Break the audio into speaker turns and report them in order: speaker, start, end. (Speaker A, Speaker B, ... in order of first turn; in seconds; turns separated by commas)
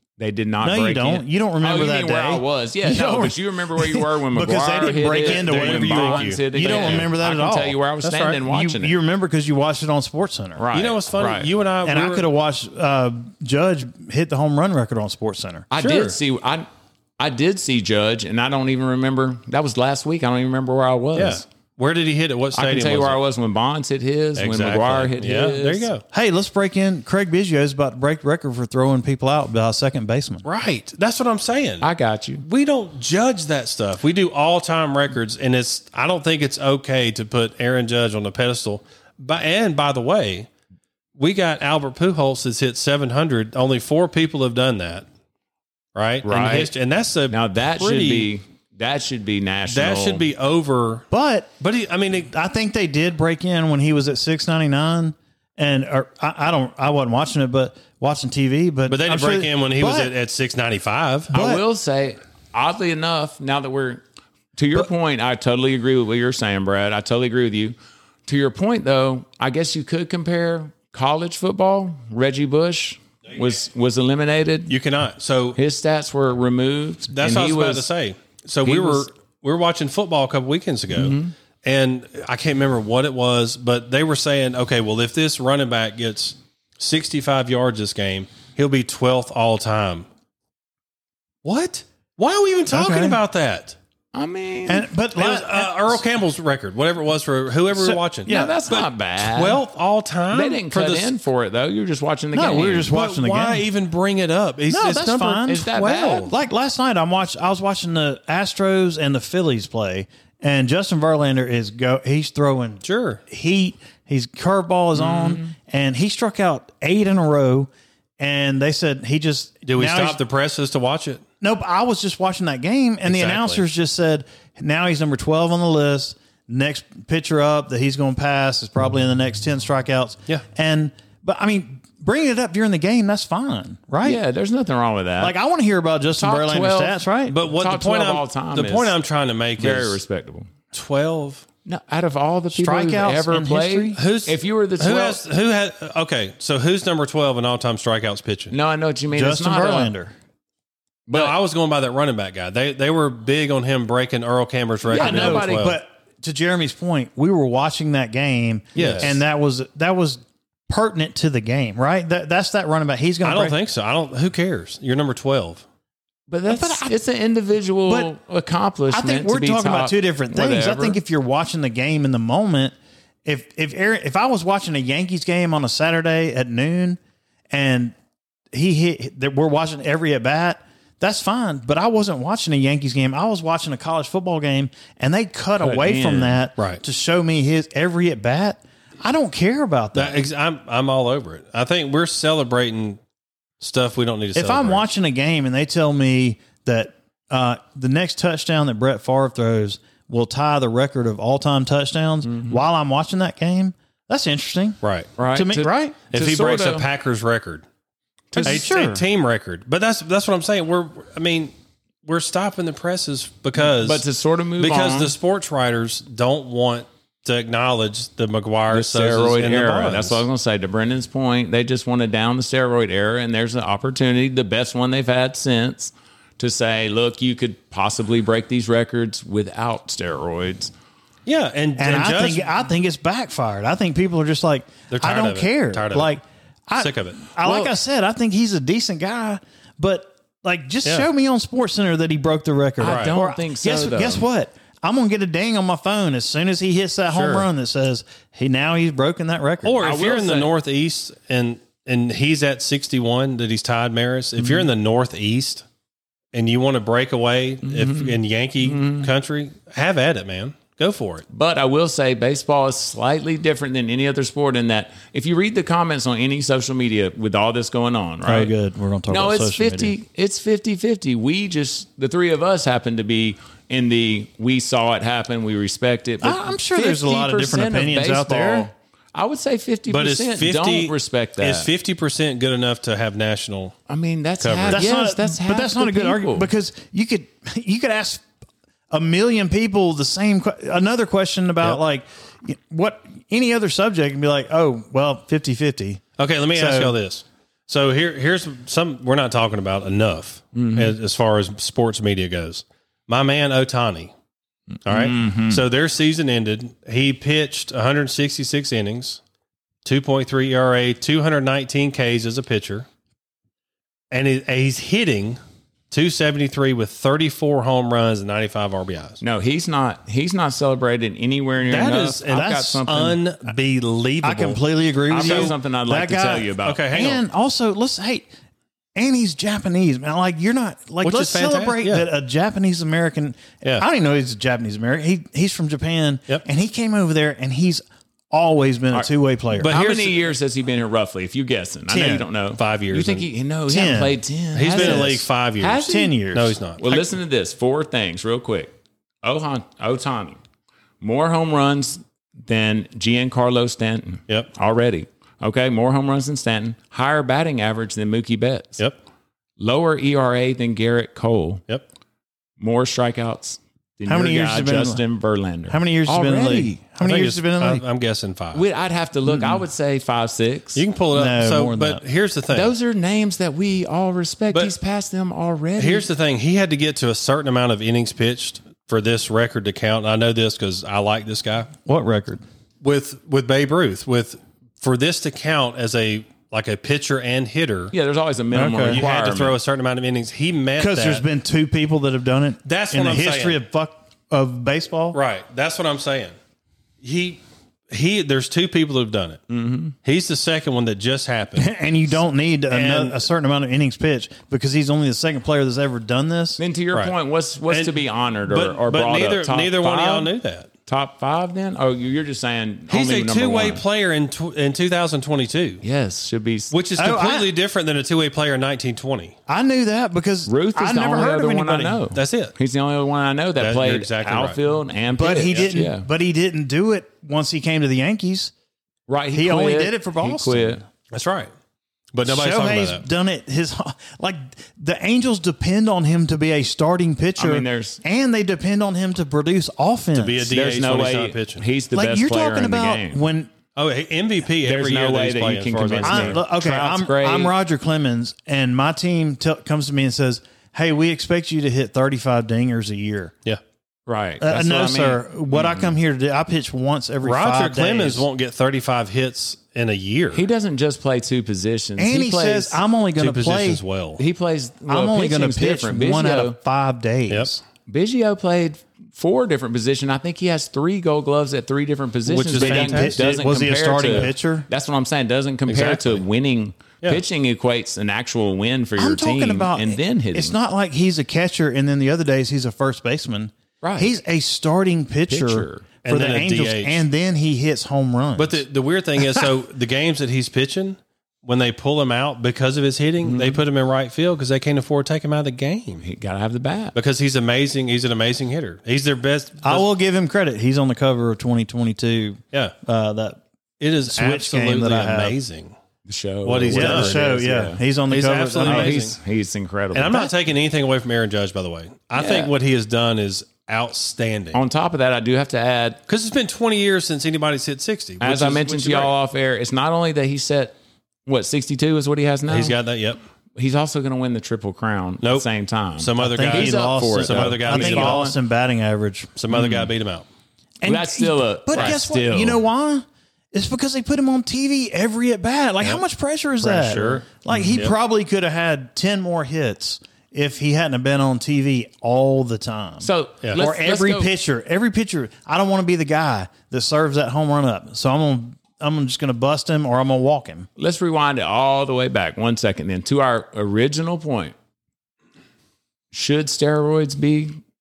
Speaker A: 0.2-8.9, Speaker B: 0.6-7.8, Speaker C: 5.1-7.1, Speaker C: 8.0-8.4, Speaker B: 8.4-10.6, Speaker A: 10.6-11.5, Speaker C: 10.7-12.2, Speaker B: 11.8-15.7, Speaker A: 15.7-16.7, Speaker C: 15.8-16.2, Speaker A: 17.2-21.4, Speaker C: 21.1-23.2, Speaker A: 22.5-25.9, Speaker C: 24.4-26.0, Speaker B: 26.1-30.4, Speaker C: 30.4-31.8, Speaker A: 31.8-32.4, Speaker C: 32.4-40.5, Speaker C: 41.2-45.0, Speaker C: 45.9-48.3, Speaker A: 46.2-46.7, Speaker A: 47.3-50.3, Speaker C: 49.7-51.0, Speaker B: 51.1-51.5, Speaker C: 51.6-52.3, Speaker B: 52.3-60.1, Speaker C: 58.9-61.3, Speaker B: 61.3-61.6, Speaker A: 61.3-64.0, Speaker A: 64.5-67.7, Speaker A: 68.3-74.7, Speaker C: 74.7-75.6, Speaker A: 75.5-77.9, Speaker C: 77.1-90.0, Speaker A: 78.6-79.1, Speaker A: 80.9-81.3, Speaker C: 91.4-93.8, Speaker B: 92.7-93.2, Speaker A: 94.1-94.9, Speaker B: 94.7-96.0, Speaker C: 95.2-101.1, Speaker B: 97.7-98.6, Speaker A: 98.3-99.6, Speaker A: 100.3-102.9, Speaker B: 102.3-103.7, Speaker C: 102.7-106.3, Speaker B: 104.7-120.2, Speaker A: 105.5-106.3, Speaker C: 112.8-113.2, Speaker A: 115.0-115.5, Speaker C: 119.6-121.2, Speaker B: 121.4-134.2, Speaker C: 123.0-123.6, Speaker A: 134.0-135.3, Speaker B: 135.2-137.3, Speaker A: 136.2-138.9, Speaker C: 137.3-140.0, Speaker A: 139.6-140.5, Speaker C: 140.7-141.4, Speaker A: 141.6-145.2, Speaker B: 142.5-144.0, Speaker C: 143.9-148.5, Speaker A: 148.5-149.9, Speaker B: 149.1-150.1, Speaker A: 151.1-151.3, Speaker C: 151.1-155.8, Speaker A: 154.8-155.8, Speaker B: 154.9-163.6, Speaker A: 158.7-159.1, Speaker C: 158.7-159.1, Speaker C: 163.2-165.6, Speaker A: 166.3-171.0, Speaker B: 166.5-167.0, Speaker B: 168.9-172.7, Speaker B: 173.2-177.0, Speaker B: 177.5-177.9, Speaker B: 178.5-190.2, Speaker A: 185.6-186.4, Speaker C: 186.6-186.8, Speaker C: 189.9-193.0, Speaker C: 193.6-194.8, Speaker B: 194.3-204.8, Speaker A: 202.2-202.6, Speaker C: 204.8-205.1, Speaker A: 205.2-206.9, Speaker B: 205.3-205.9, Speaker C: 206.1-207.6, Speaker A: 208.3-208.6, Speaker B: 208.3-209.0, Speaker C: 208.4-211.5, Speaker C: 212.0-214.1, Speaker A: 213.6-215.1, Speaker C: 214.6-220.2, Speaker A: 218.7-230.7, Speaker C: 231.2-232.5, Speaker B: 231.8-249.8, Speaker C: 234.9-236.1, Speaker C: 236.8-237.2, Speaker A: 237.4-237.7, Speaker A: 242.8-244.2, Speaker C: 242.8-243.1, Speaker C: 249.6-255.6, Speaker A: 249.8-250.5, Speaker C: 256.3-261.2, Speaker A: 257.6-259.1, Speaker A: 261.3-268.5, Speaker B: 268.2-269.9, Speaker A: 269.1-281.7, Speaker B: 276.2-278.7, Speaker C: 279.9-283.8, Speaker A: 283.9-286.5, Speaker C: 284.4-284.8, Speaker B: 284.7-288.2, Speaker B: 288.9-296.0, Speaker C: 296.2-304.1, Speaker B: 296.5-296.9, Speaker A: 300.5-300.9, Speaker C: 304.9-309.2, Speaker A: 304.9-305.6, Speaker C: 309.8-312.9, Speaker C: 314.1-315.4, Speaker C: 315.9-319.2, Speaker A: 319.2-323.2, Speaker C: 321.6-324.6, Speaker B: 322.4-322.7, Speaker B: 324.2-328.3, Speaker A: 325.1-326.9, Speaker C: 325.1-325.5, Speaker C: 326.6-327.2, Speaker B: 328.9-339.7, Speaker C: 331.0-332.1, Speaker C: 339.6-340.3, Speaker A: 339.6-346.1, Speaker B: 341.9-342.2, Speaker C: 342.6-343.3, Speaker B: 343.7-344.2, Speaker C: 344.5-347.0, Speaker B: 344.7-345.2, Speaker B: 345.8-346.6, Speaker A: 346.8-350.4, Speaker A: 351.0-358.8, Speaker A: 359.6-361.6, Speaker A: 362.6-366.8, Speaker B: 364.1-365.0, Speaker B: 365.7-367.8, Speaker C: 367.0-368.6, Speaker A: 368.5-370.8, Speaker B: 369.2-369.6, Speaker C: 370.7-372.7, Speaker B: 371.1-372.0, Speaker A: 372.5-376.1, Speaker C: 375.8-381.7, Speaker B: 381.8-382.4, Speaker C: 382.8-387.9, Speaker A: 387.9-389.6, Speaker B: 388.5-389.0, Speaker C: 388.9-391.2, Speaker B: 390.8-395.2, Speaker C: 392.6-393.6, Speaker C: 395.1-396.3, Speaker C: 397.0-399.4, Speaker A: 399.5-399.9, Speaker C: 400.0-401.7, Speaker B: 401.6-406.6, Speaker C: 402.7-403.3, Speaker A: 406.6-410.3, Speaker C: 407.7-407.9, Speaker C: 408.4-410.7, Speaker A: 410.9-413.8, Speaker C: 412.9-415.8, Speaker A: 415.8-416.7, Speaker C: 416.7-419.4, Speaker B: 417.0-417.5, Speaker B: 419.5-422.0, Speaker A: 420.4-426.1, Speaker C: 422.1-422.5, Speaker C: 423.6-424.6, Speaker B: 425.1-428.5, Speaker A: 429.1-430.8, Speaker B: 429.3-430.8, Speaker C: 431.1-431.5, Speaker C: 432.1-433.0, Speaker B: 432.2-440.5, Speaker A: 437.4-438.0, Speaker C: 440.1-441.6, Speaker A: 440.5-443.2, Speaker B: 441.9-443.5, Speaker C: 443.8-446.4, Speaker A: 444.6-447.5, Speaker B: 446.0-453.3, Speaker A: 454.1-455.9, Speaker B: 454.4-458.2, Speaker C: 457.2-460.4, Speaker A: 460.3-462.8, Speaker B: 462.0-463.8, Speaker C: 463.2-464.2, Speaker A: 464.2-466.6, Speaker B: 464.9-467.6, Speaker A: 467.9-480.6, Speaker C: 472.3-473.2, Speaker B: 472.5-474.7, Speaker C: 475.7-476.2, Speaker B: 479.0-488.6, Speaker A: 483.8-484.1, Speaker A: 485.3-485.9, Speaker C: 486.0-487.0, Speaker C: 488.4-496.0, Speaker B: 489.2-489.5, Speaker A: 493.2-493.6, Speaker A: 496.0-496.9, Speaker C: 496.9-499.8, Speaker B: 499.6-503.4, Speaker C: 503.8-505.7, Speaker B: 504.1-505.4, Speaker A: 506.1-507.8, Speaker C: 506.4-507.3, Speaker B: 506.7-509.0, Speaker C: 508.1-509.2, Speaker A: 508.6-510.3, Speaker C: 509.9-514.6, Speaker A: 512.1-512.5, Speaker A: 514.5-516.0, Speaker C: 516.1-519.1, Speaker A: 518.2-522.8, Speaker C: 522.5-523.2, Speaker A: 523.5-528.4, Speaker C: 525.2-525.5, Speaker C: 526.0-528.2, Speaker B: 526.2-529.3, Speaker C: 529.4-530.2, Speaker A: 529.5-529.9, Speaker B: 530.8-550.7, Speaker A: 530.8-532.6, Speaker C: 531.7-532.0, Speaker C: 536.6-537.9, Speaker A: 537.5-537.8, Speaker A: 543.0-544.3, Speaker A: 550.8-554.5, Speaker A: 556.1-557.6